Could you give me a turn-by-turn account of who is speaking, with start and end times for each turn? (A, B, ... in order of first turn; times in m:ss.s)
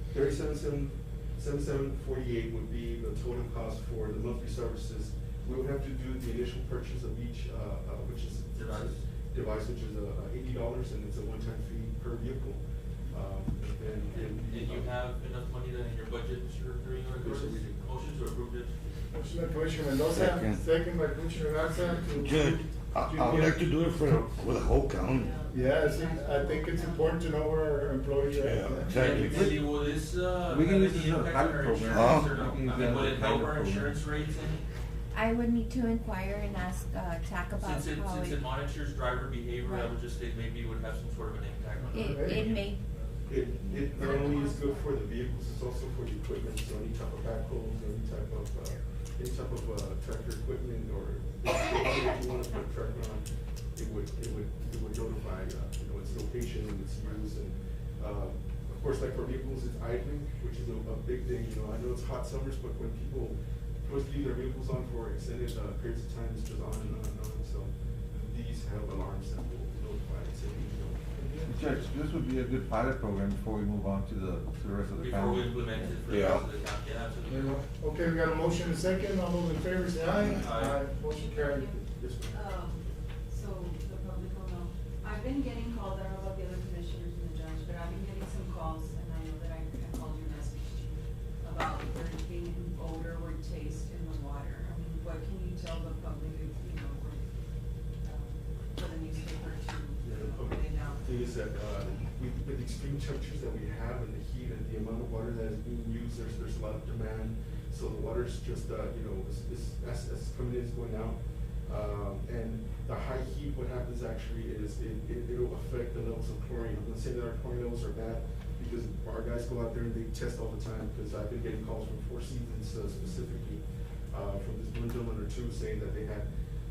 0:00.1-0:14.9 A
0:08.5-0:09.0 B
0:14.4-0:18.8 B
0:17.2-0:17.7 A
0:19.1-0:23.6 C
0:20.0-0:20.7 D
0:21.9-0:25.4 D
0:25.1-0:27.4 E
0:25.5-0:29.4 C
0:28.3-0:29.5 D
0:28.9-0:34.7 B
0:29.1-0:29.8 F
0:30.5-0:34.0 F
0:31.9-0:32.3 D
0:35.1-0:38.4 G
0:37.6-0:43.1 B
0:39.6-0:39.9 G
0:41.9-0:42.5 C
0:41.9-0:42.8 G
0:43.3-1:11.0 A
0:43.7-0:44.9 G
1:11.2-1:11.6 C
1:11.5-1:15.5 F
1:15.0-1:17.6 B
1:16.1-1:16.4 D
1:17.3-1:21.8 C
1:20.4-1:20.8 B
1:21.0-1:37.2 E
1:21.9-1:22.4 A
1:38.0-1:41.1 E
1:40.0-2:06.3 A